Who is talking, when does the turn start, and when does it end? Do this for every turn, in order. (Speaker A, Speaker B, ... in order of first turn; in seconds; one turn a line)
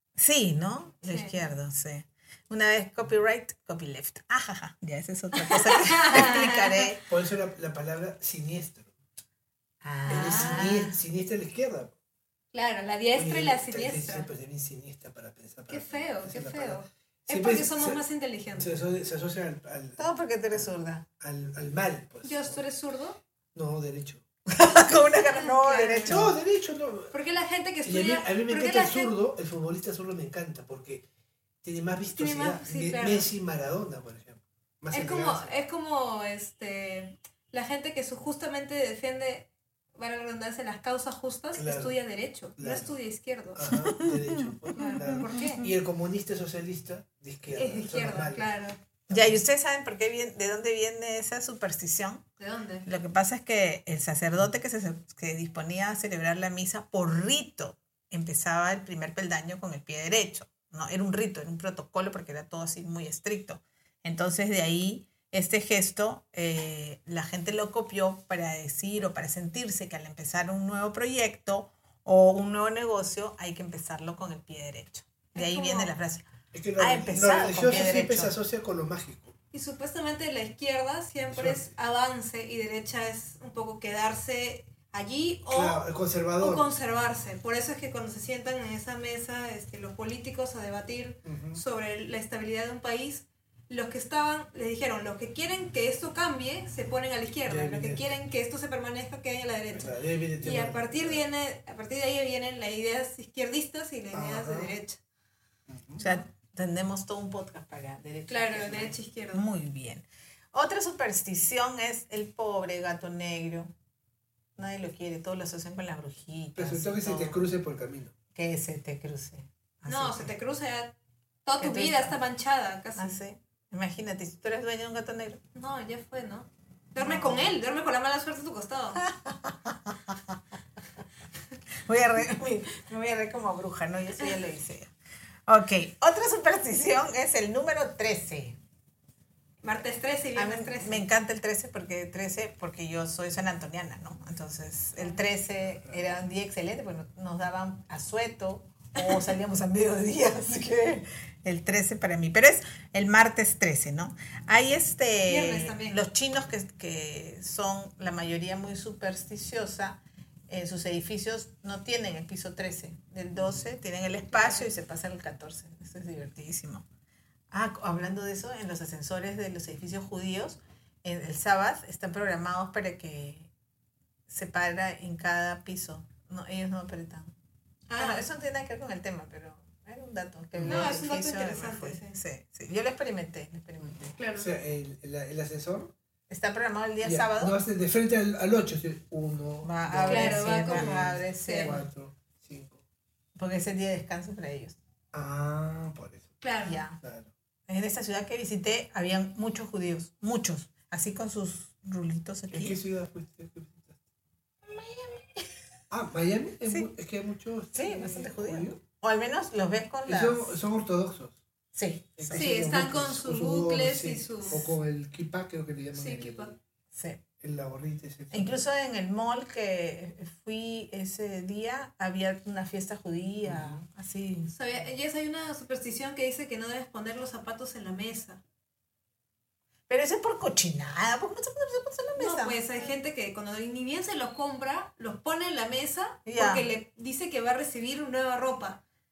Speaker A: 0.2-7.0
Speaker B: 1.1-1.4
Speaker B: 5.4-6.9
Speaker C: 7.1-8.9
Speaker A: 9.8-11.0
Speaker B: 10.1-10.8
Speaker C: 10.1-11.9
Speaker B: 12.5-14.3
Speaker C: 13.1-18.0
Speaker B: 15.7-18.8
Speaker C: 18.6-20.7
Speaker A: 20.0-21.0
Speaker C: 21.2-22.6
Speaker B: 22.2-23.2
Speaker C: 23.5-24.2
Speaker A: 24.5-26.4
Speaker B: 25.3-26.2
Speaker C: 26.1-27.1
Speaker B: 27.1-29.1
Speaker C: 27.8-31.0
Speaker C: 31.6-35.5
Speaker B: 32.1-33.3
Speaker B: 34.9-43.7
Speaker C: 41.5-42.0
Speaker C: 42.6-43.0
Speaker C: 43.5-48.5
Speaker A: 43.7-45.2
Speaker B: 44.8-45.7
Speaker B: 47.5-48.8
Speaker C: 49.1-49.4
Speaker A: 49.1-52.2
Speaker B: 52.4-52.9
Speaker A: 52.9-76.3
Speaker B: 75.3-75.9
Speaker C: 76.5-79.3
Speaker A: 76.8-78.3
Speaker B: 79.5-85.8
Speaker C: 81.3-81.7
Speaker C: 85.5-86.7
Speaker B: 86.4-105.0
Speaker C: 91.2-91.6
Speaker C: 97.5-98.1
Speaker C: 99.7-101.2
Speaker C: 104.1-104.7
Speaker C: 105.7-106.0
Speaker A: 106.0-113.7
Speaker B: 108.3-109.5
Speaker A: 114.6-117.5
Speaker C: 116.6-118.1
Speaker A: 118.3-120.3
Speaker B: 119.9-120.9
Speaker B: 121.5-123.2
Speaker A: 121.6-122.2
Speaker A: 123.0-125.4
Speaker B: 125.5-129.0
Speaker A: 127.0-127.5
Speaker A: 129.0-130.2
Speaker A: 131.9-134.9
Speaker A: 135.5-138.6
Speaker B: 139.6-141.1
Speaker A: 140.3-166.8
Speaker C: 145.8-146.1
Speaker B: 155.3-156.0
Speaker B: 164.3-164.7
Speaker A: 167.5-173.5
Speaker A: 174.3-177.3
Speaker B: 177.9-178.2
Speaker A: 178.0-184.1
Speaker C: 180.6-181.0
Speaker B: 180.7-182.2
Speaker C: 183.8-185.9
Speaker B: 184.2-184.5
Speaker A: 186.3-187.6
Speaker C: 187.0-192.8
Speaker A: 189.6-191.8
Speaker B: 190.1-191.8
Speaker A: 193.4-194.8
Speaker C: 195.1-196.3
Speaker B: 196.4-196.8
Speaker A: 196.6-197.0
Speaker C: 197.0-197.3
Speaker A: 197.7-202.8
Speaker C: 202.5-204.0
Speaker A: 204.7-205.5
Speaker C: 205.9-208.8
Speaker A: 207.7-210.6
Speaker C: 210.1-211.4
Speaker A: 211.8-212.5
Speaker C: 212.2-216.6
Speaker B: 212.3-214.7
Speaker B: 215.9-216.5
Speaker A: 216.9-217.2
Speaker C: 217.4-218.6
Speaker A: 218.3-224.6
Speaker C: 223.4-223.8
Speaker B: 224.5-228.4
Speaker A: 229.9-232.6
Speaker B: 232.2-238.8
Speaker A: 236.3-236.7